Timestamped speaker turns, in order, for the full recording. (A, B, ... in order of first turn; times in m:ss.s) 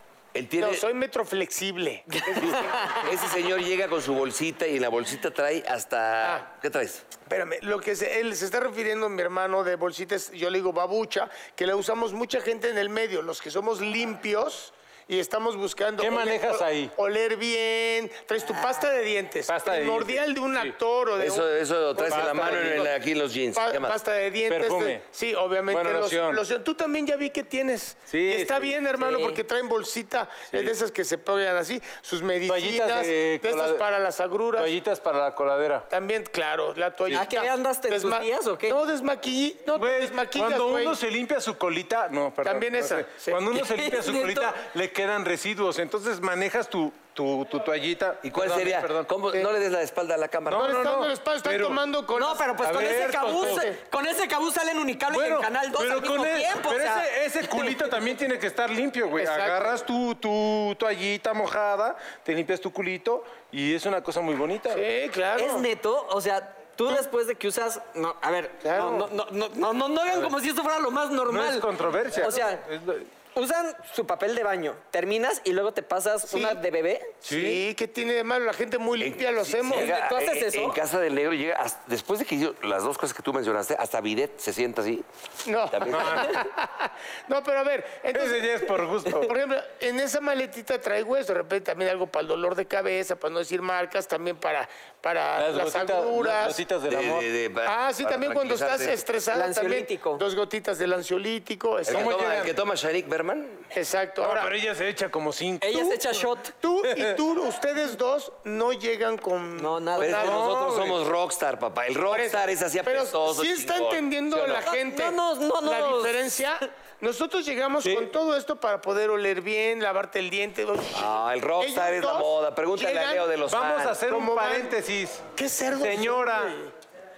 0:00.3-0:00.8 A
0:00.6-0:03.1 B
0:02.2-0:03.0 C
0:02.4-0:07.0 A
0:07.3-0:23.0 B
0:16.0-0:16.9 D
0:19.5-0:20.7 D
0:21.2-0:24.0 A
0:22.0-0:22.9 D
0:23.5-0:34.7 B
0:24.5-0:25.0 D
0:25.7-0:26.4 D
0:28.1-0:28.8 D
0:29.0-0:29.4 C
0:32.4-0:33.8 D
0:34.6-0:35.9 D
0:35.9-0:41.0 B
0:37.1-0:38.8 C
0:39.7-0:49.1 D
0:42.4-0:43.5 B
0:43.6-0:44.6 C
0:48.2-0:50.8 A
0:50.5-0:51.8 D
0:50.5-0:53.8 B
0:52.1-0:57.8 C
0:52.6-0:53.6 D
0:55.1-1:04.8 D
0:59.2-0:59.8 B
1:04.7-1:05.7 B
1:05.3-1:12.6 C
1:08.6-1:09.1 B
1:11.3-1:13.1 D
1:13.3-1:17.2 C
1:16.3-1:16.6 B
1:17.2-1:17.6 D
1:17.2-1:19.9 B
1:19.0-1:25.0 A
1:19.7-1:20.8 C
1:25.4-1:36.6 B
1:25.7-1:26.4 A
1:25.9-1:26.3 D
1:28.1-1:29.3 D
1:35.4-1:37.3 D
1:36.9-1:39.0 A
1:37.6-1:42.2 B
1:39.3-1:40.2 C
1:41.9-1:42.5 D
1:41.9-1:43.7 A
1:43.7-1:44.5 B
1:44.2-1:46.0 D
1:45.6-1:46.5 C
1:46.6-1:50.6 B
1:46.8-1:47.2 D
1:49.6-1:50.3 C
1:50.0-1:54.6 A
1:50.0-1:51.0 D
1:52.1-2:03.3 B
1:54.4-1:56.3 C
1:57.8-1:58.1 D
2:00.9-2:04.0 A
2:03.5-2:05.2 D
2:04.1-2:04.7 B
2:05.4-2:06.7 B
2:05.7-2:06.6 D